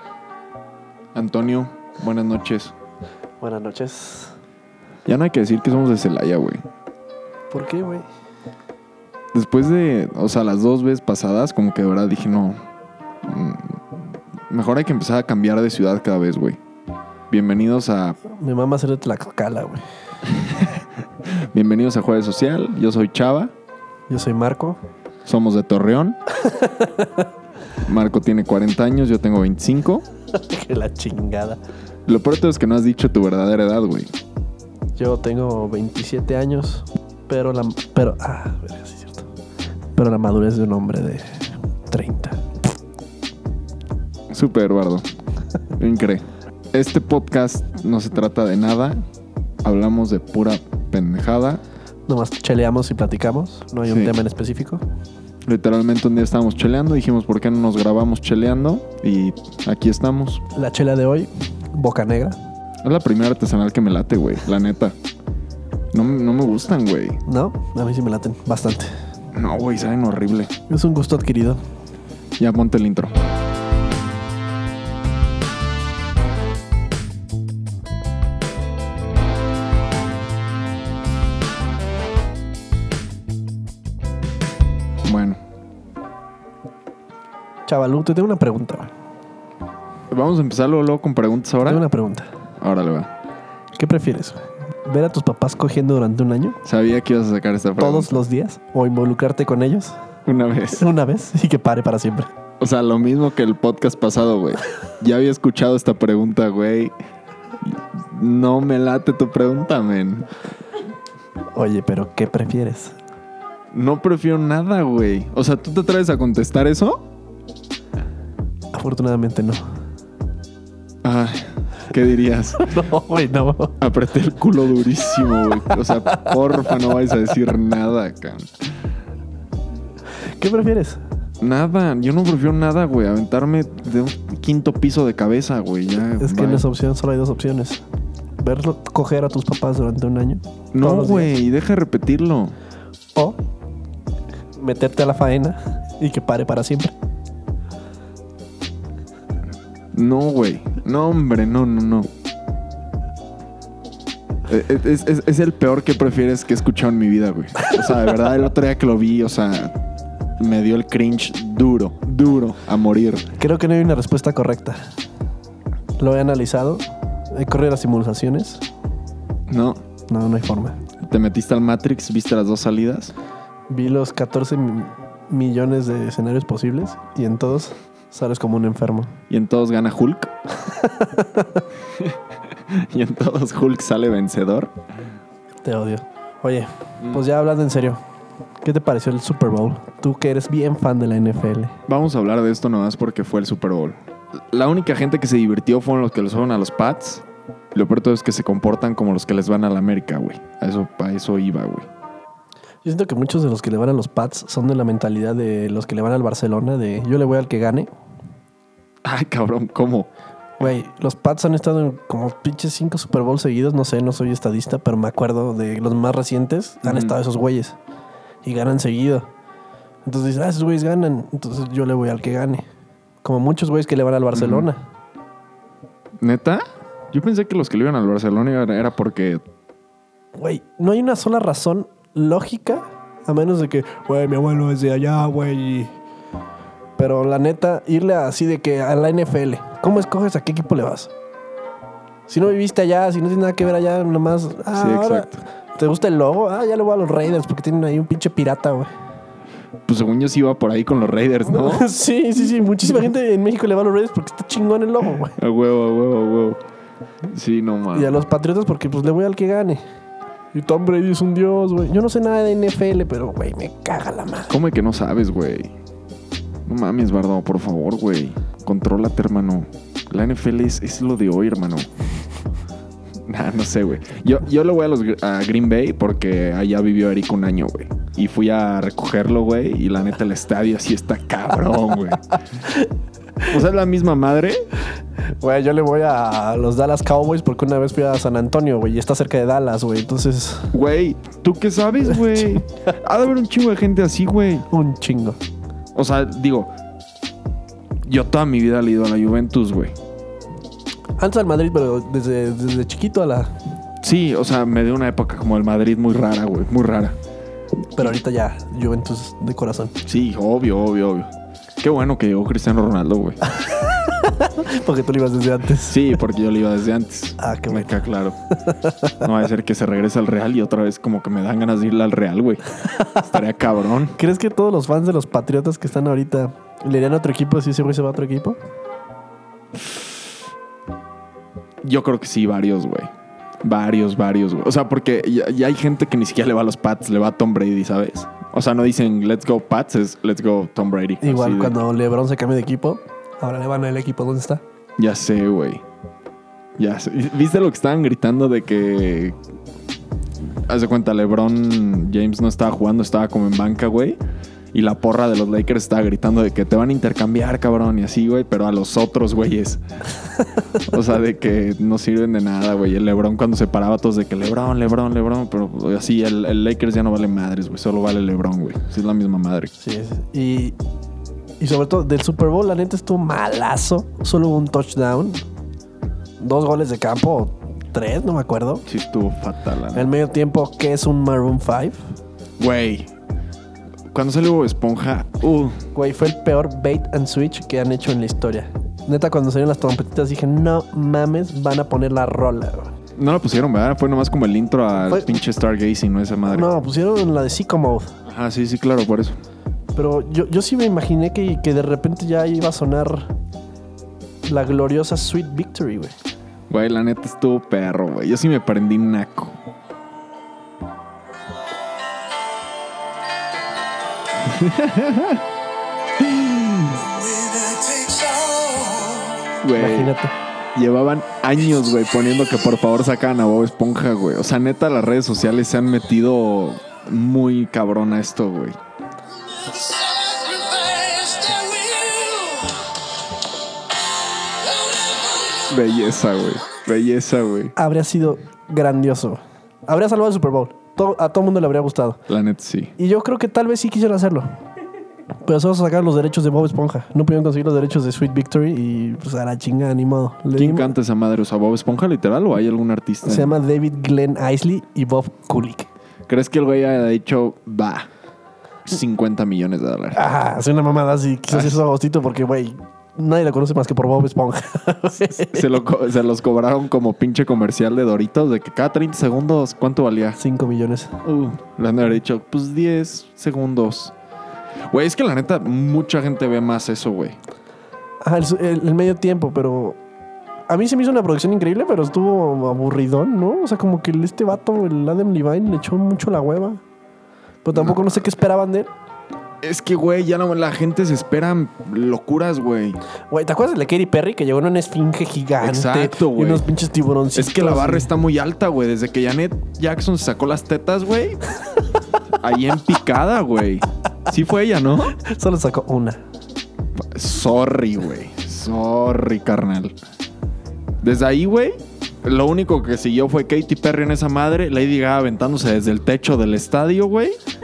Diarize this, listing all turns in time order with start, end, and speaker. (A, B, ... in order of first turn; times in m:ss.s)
0:01.1-0:02.7 A
0:03.4-0:04.3 B
0:05.0-0:06.6 A
0:07.5-0:08.0 B
0:09.3-0:12.6 A
0:13.2-0:16.6 A
0:17.3-0:18.2 A
0:18.2-0:19.8 B
0:20.3-0:23.5 A
0:24.1-0:24.8 B
0:25.2-0:26.2 A
0:26.4-0:27.3 B
0:27.8-0:30.0 A
0:30.3-0:31.6 B
0:32.0-0:34.1 A
0:35.0-0:39.3 B
0:39.9-0:42.4 B
0:44.3-0:45.0 A
0:45.8-0:49.0 A
0:49.6-0:51.6 A
0:52.1-0:54.8 B
0:53.8-0:54.1 A
0:55.4-1:00.4 A
1:00.5-1:02.4 B
1:02.8-1:04.9 A
1:05.9-1:07.2 A
1:07.2-1:08.9 B
1:09.3-1:10.5 A
1:10.7-1:11.6 B
1:12.4-1:13.1 A
1:25.0-1:25.4 A
1:27.7-1:28.9 B
1:30.1-1:31.8 A
1:31.6-1:32.3 B
1:32.6-1:33.1 A
1:33.8-1:36.6 B
1:36.6-1:38.1 A
1:37.8-1:40.0 B
1:40.2-1:40.8 A
1:40.7-1:42.3 B
1:42.6-1:46.9 A
1:47.6-1:50.3 A
1:51.5-1:53.0 B
1:53.7-1:57.0 A
1:58.7-1:59.6 B
2:01.0-2:02.7 A
2:02.6-2:03.8 B
2:03.8-2:08.5 A
2:05.2-2:06.8 B
2:10.4-2:11.0 B
2:11.4-2:16.6 A
2:16.2-2:17.8 B
2:18.4-2:21.3 B
2:20.7-2:22.6 A
2:24.6-2:26.9 B
2:29.9-2:32.1 A
2:34.5-2:39.8 A
2:40.4-2:43.2 A
2:43.4-2:44.9 B
2:46.0-2:48.6 B
2:49.5-2:49.8 A
2:50.1-2:50.8 B
2:51.0-2:53.1 A
2:53.7-2:59.1 B
2:59.3-3:00.3 A
3:00.6-3:01.6 B
3:01.9-3:04.7 A
3:05.6-3:08.0 B
3:08.6-3:11.8 B
3:11.9-3:14.0 A
3:14.5-3:21.9 A
3:22.8-3:27.9 B
3:29.0-3:30.1 A
3:30.6-3:37.8 B
3:36.8-3:37.1 A
3:38.4-3:39.3 B
3:40.0-3:42.6 B
3:43.2-3:44.8 B
3:44.3-3:44.7 A
3:46.2-3:49.4 A
3:50.4-3:55.9 B
3:57.0-4:01.1 B
4:02.3-4:08.9 B
4:04.7-4:05.4 A
4:09.8-4:11.9 A
4:11.5-4:15.4 B
4:15.4-4:16.6 A
4:17.3-4:18.2 A
4:17.9-4:19.8 B
4:20.5-4:24.6 B
4:24.5-4:25.7 A
4:26.6-4:31.9 A
4:33.3-4:42.3 A
4:43.5-4:44.6 A
4:45.4-4:50.7 B
4:50.7-4:54.6 A
4:54.7-4:55.4 B
4:55.9-4:56.7 A
4:58.0-4:59.9 A
5:01.2-5:03.5 B
5:04.0-5:07.2 A
5:08.0-5:10.0 B
5:10.0-5:13.4 A
5:13.6-5:16.1 B
5:15.8-5:18.4 A
5:17.4-5:17.9 B
5:18.6-5:19.2 B
5:19.2-5:24.2 A
5:24.1-5:28.6 B
5:31.8-5:33.1 A
5:33.6-5:41.7 A
5:41.2-5:44.6 B
5:45.0-5:45.8 A
5:46.8-5:49.4 A
5:50.6-5:54.2 A
5:54.7-5:59.8 A
6:00.8-6:09.7 A
6:09.8-6:10.8 B
6:11.6-6:15.4 B
6:16.4-6:18.8 B
6:18.8-6:20.1 A
6:19.9-6:22.0 B
6:22.6-6:23.1 A
6:24.1-6:25.8 A
6:25.9-6:32.9 B
6:33.2-6:36.7 A
6:35.1-6:35.3 B
6:36.5-6:38.1 B
6:38.2-6:39.4 A
6:39.9-6:43.3 B
6:44.4-6:46.1 B
6:46.7-6:49.6 A
6:54.4-6:55.4 A
6:56.2-6:57.1 A
6:57.4-7:00.3 B
6:59.6-7:00.1 A
7:00.7-7:08.8 A
7:11.0-7:12.1 A
7:15.6-7:17.7 A
7:17.8-7:22.2 B
7:22.3-7:22.9 A
7:23.0-7:24.5 B
7:25.4-7:30.9 B
7:30.5-7:33.6 A
7:33.2-7:35.9 B
7:36.3-7:38.1 A
7:38.9-7:40.2 A
7:40.1-7:45.7 B
7:41.5-7:41.8 A
7:45.4-7:50.4 A
7:50.4-7:51.2 B
7:51.2-7:54.1 A
7:54.9-7:57.4 A
7:58.2-8:00.0 B
8:00.7-8:06.8 B
8:07.6-8:08.9 B
8:07.7-8:08.1 A
8:09.6-8:13.0 A
8:13.3-8:18.1 B
8:15.6-8:16.6 A
8:17.3-8:21.4 A
8:22.3-8:25.2 A
8:25.2-8:26.2 B
8:27.0-8:29.9 A
8:31.0-8:37.4 A